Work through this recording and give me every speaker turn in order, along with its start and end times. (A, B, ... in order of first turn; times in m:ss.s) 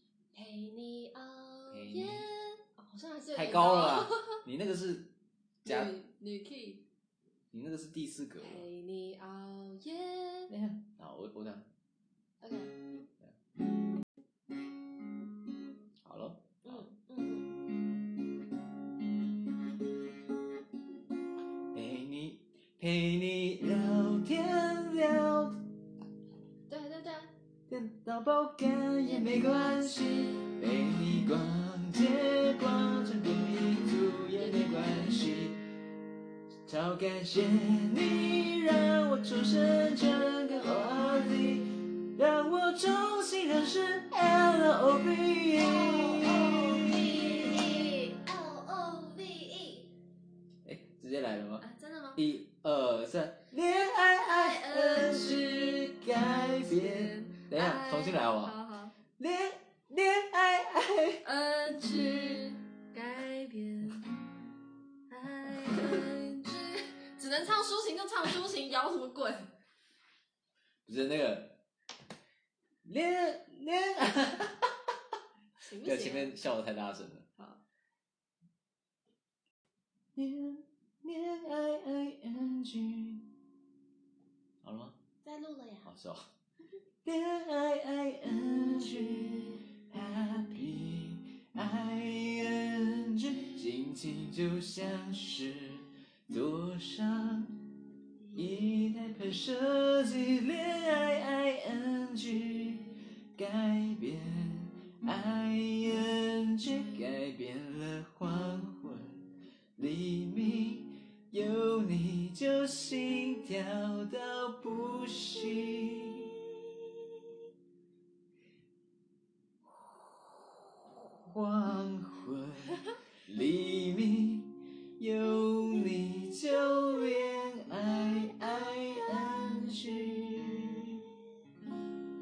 0:00.3-0:04.4 A
0:01.7-0:02.3 B
0:03.3-0:05.1 B
0:05.6-0:06.8 A
0:05.6-0:06.0 B
0:07.5-0:08.7 B
0:08.4-0:10.5 A
0:10.5-0:11.7 B
0:12.4-0:12.8 A
0:16.0-0:16.9 B
0:16.6-0:17.6 A
0:21.7-0:25.6 B
0:26.7-0:27.4 A
0:27.7-0:35.6 B
0:29.0-0:30.1 A
0:34.3-0:35.3 A
0:36.6-0:47.5 B
0:45.6-0:49.9 A
0:50.6-0:58.6 B
0:51.6-0:52.2 A
0:54.0-0:59.0 A
0:59.2-1:02.4 B
1:01.2-1:04.1 A
1:05.1-1:09.5 A
1:10.8-1:11.6 B
1:12.8-1:14.7 B
1:15.6-1:16.3 A
1:15.8-1:17.3 B
1:17.4-1:17.6 A
1:20.2-1:23.3 B
1:24.6-1:25.0 B
1:25.2-1:25.9 A
1:25.8-1:26.2 B
1:27.0-1:37.6 B
1:38.3-1:56.4 B
2:01.2-2:11.0 B